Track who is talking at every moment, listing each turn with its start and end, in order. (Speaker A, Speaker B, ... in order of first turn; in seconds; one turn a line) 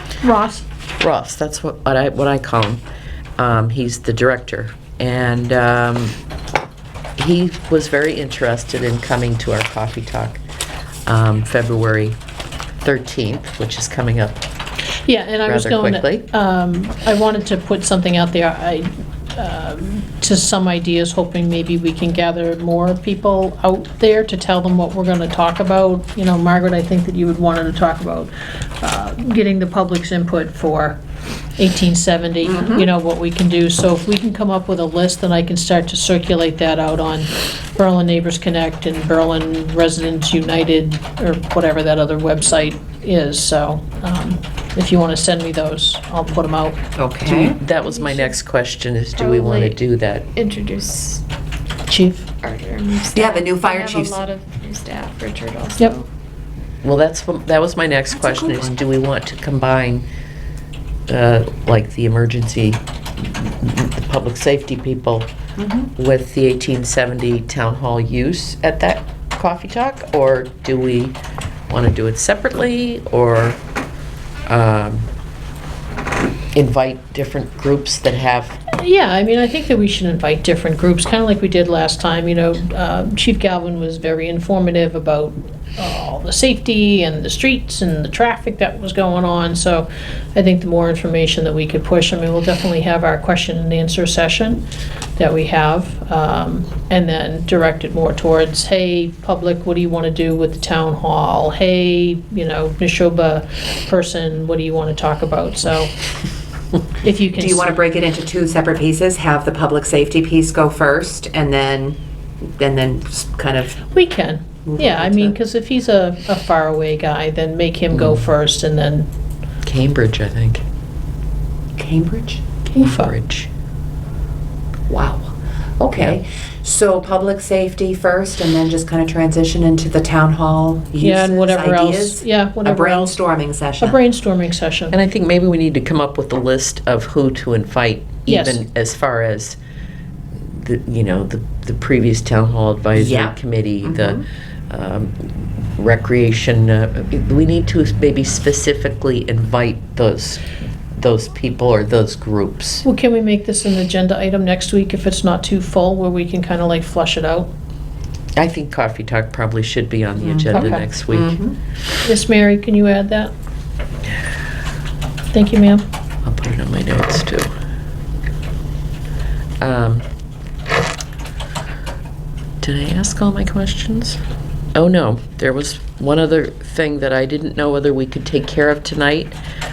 Speaker A: 0.2-0.6
Speaker B: 1.0-2.8
Speaker B: 3.4-6.2
Speaker B: 7.2-10.4
Speaker B: 11.1-12.2
Speaker B: 12.8-14.4
Speaker A: 15.1-31.0
Speaker B: 15.4-16.2
Speaker A: 31.6-46.8
Speaker C: 32.4-32.9
Speaker C: 47.0-47.6
Speaker B: 47.3-50.3
Speaker D: 47.8-48.3
Speaker D: 49.2-49.8
Speaker D: 50.3-51.2
Speaker A: 51.9-52.3
Speaker D: 52.4-56.1
Speaker C: 53.1-54.2
Speaker B: 56.8-60.1
Speaker C: 58.1-58.8
Speaker B: 61.1-65.3
Speaker C: 65.6-65.9
Speaker B: 66.0-71.2
Speaker B: 71.7-73.6
Speaker B: 74.5-75.1
Speaker B: 76.5-78.6
Speaker A: 78.8-94.6
Speaker A: 95.2-105.9
Speaker A: 107.0-107.7
Speaker C: 107.3-113.8
Speaker A: 113.9-119.1
Speaker C: 114.7-115.3
Speaker B: 117.9-118.3
Speaker B: 119.6-120.6
Speaker C: 121.8-122.4
Speaker A: 122.7-123.1
Speaker B: 122.8-123.5
Speaker C: 124.9-134.0
Speaker A: 131.0-133.2
Speaker A: 133.8-135.0
Speaker B: 134.9-139.6
Speaker A: 138.3-138.6
Speaker B: 140.4-152.8
Speaker C: 143.0-144.2
Speaker A: 152.8-157.5
Speaker B: 158.4-161.4
Speaker C: 160.2-161.6
Speaker A: 160.5-160.9
Speaker A: 162.0-163.3
Speaker A: 165.3-165.8
Speaker B: 166.2-167.5
Speaker B: 169.6-170.1
Speaker B: 172.6-174.2
Speaker B: 174.8-179.4